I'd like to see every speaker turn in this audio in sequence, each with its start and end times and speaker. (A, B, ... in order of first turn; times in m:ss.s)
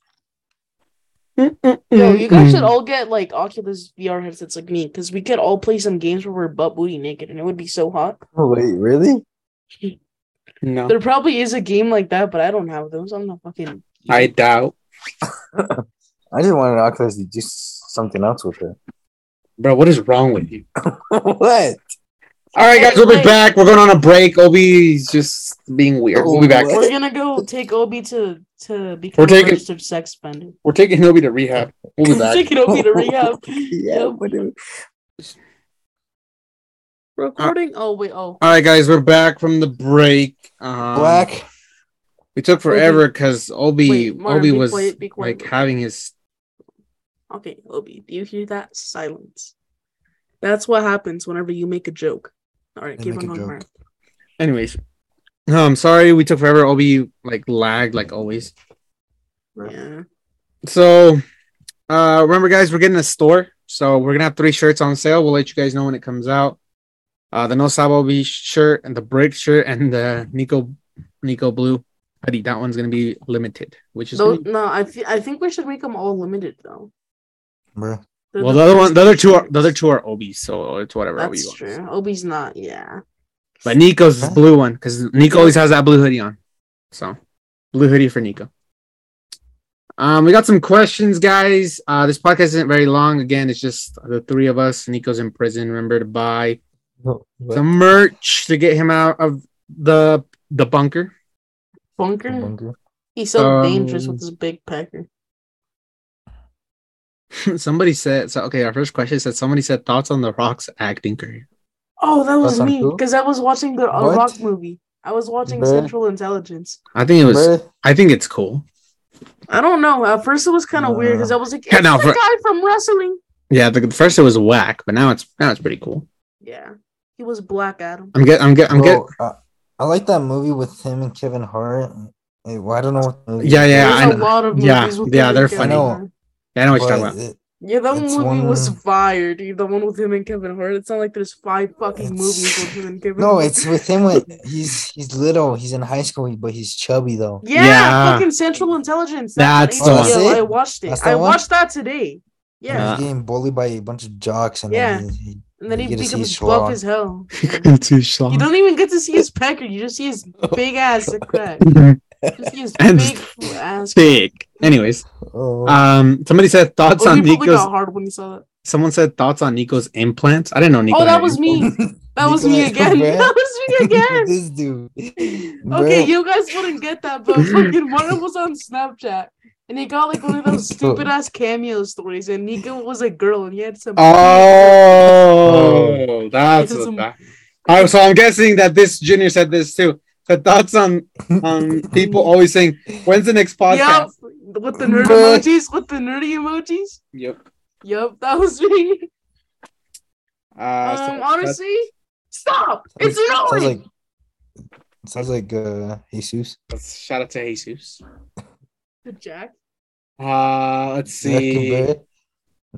0:01.4-0:02.7 A
0:01.9-0:08.2 B
0:08.4-0:09.2 C
0:10.6-0:10.9 A
0:10.9-0:14.3 B
0:14.1-0:14.7 A
0:15.5-0:18.8 C
0:19.6-0:20.6 A
0:20.8-0:21.8 C
0:22.5-0:26.8 A
0:22.7-0:23.4 B
0:26.1-0:27.4 C
0:26.7-0:30.5 B
0:29.2-0:29.6 A
0:30.6-0:32.5 A
0:32.0-0:34.2 B
0:32.7-0:34.5 C
0:37.2-0:38.4 B
0:38.4-0:41.3 A
0:40.9-0:41.4 C
0:42.3-0:46.1 A
0:42.7-0:43.0 B
0:43.8-0:45.5 B
0:47.3-0:49.5 B
0:50.4-0:53.6 B
0:53.0-0:53.6 C
0:54.4-0:54.8 A
0:55.5-0:58.5 A
0:59.6-1:00.0 B
1:00.6-1:01.2 A
1:01.9-1:06.6 A
1:07.3-1:10.7 A
1:11.2-1:14.4 A
1:14.1-1:16.9 B
1:17.7-1:18.0 C
1:18.3-1:19.7 B
1:18.4-1:21.7 A
1:21.2-1:23.0 B
1:23.6-1:26.4 A
1:25.3-1:25.6 B
1:27.7-1:28.5 A
1:30.0-1:36.6 A
1:37.0-1:37.6 C
1:37.5-1:41.1 A
1:42.0-1:42.5 B
1:42.3-1:42.7 C
1:43.2-1:45.1 B
1:43.4-1:44.2 A
1:47.4-1:51.4 A
1:52.0-1:56.8 B
1:52.4-1:53.0 C
1:53.9-1:54.4 C
1:55.4-1:55.9 C
1:56.9-1:58.6 A
1:57.2-1:57.7 C
1:59.5-2:03.2 B
2:00.7-2:01.4 C
2:01.7-2:02.2 A
2:03.5-2:06.0 A
2:06.4-2:08.1 B
2:08.1-2:09.0 A
2:08.7-2:14.3 C
2:13.4-2:15.9 A
2:13.8-2:16.1 B
2:15.6-2:16.0 C
2:16.6-2:17.1 A
2:16.7-2:17.4 C
2:17.6-2:23.7 B
2:17.9-2:18.8 C
2:22.0-2:27.4 C
2:27.4-2:33.0 B
2:27.5-2:28.3 A
2:29.4-2:30.3 A
2:29.8-2:31.4 C
2:32.7-2:36.8 C
2:32.7-2:33.0 A
2:34.7-2:35.0 B
2:35.6-2:37.7 B
2:37.4-2:38.5 A
2:38.3-2:41.6 B
2:40.4-2:41.4 C
2:41.6-2:42.0 A
2:42.2-2:42.5 C
2:42.4-2:44.3 B
2:42.8-2:43.2 A
2:43.9-2:45.0 A
2:45.2-2:45.8 C
2:45.6-2:47.7 A
2:47.0-2:48.4 B
2:48.6-2:51.6 A
2:50.9-2:54.3 B
2:51.6-2:56.1 C
2:55.2-3:05.1 B
3:00.4-3:01.1 C
3:04.0-3:07.1 A
3:05.4-3:06.0 C
3:06.6-3:07.1 B
3:07.7-3:14.1 A
3:11.3-3:12.2 C
3:13.7-3:17.0 B
3:14.8-3:15.4 C
3:17.1-3:17.4 A
3:17.8-3:19.1 B
3:20.6-3:21.6 A
3:20.8-3:23.8 B
3:23.0-3:23.8 C
3:25.0-3:26.6 C
3:26.7-3:28.0 A
3:29.0-3:29.6 B
3:30.2-3:31.9 A
3:31.2-3:32.0 C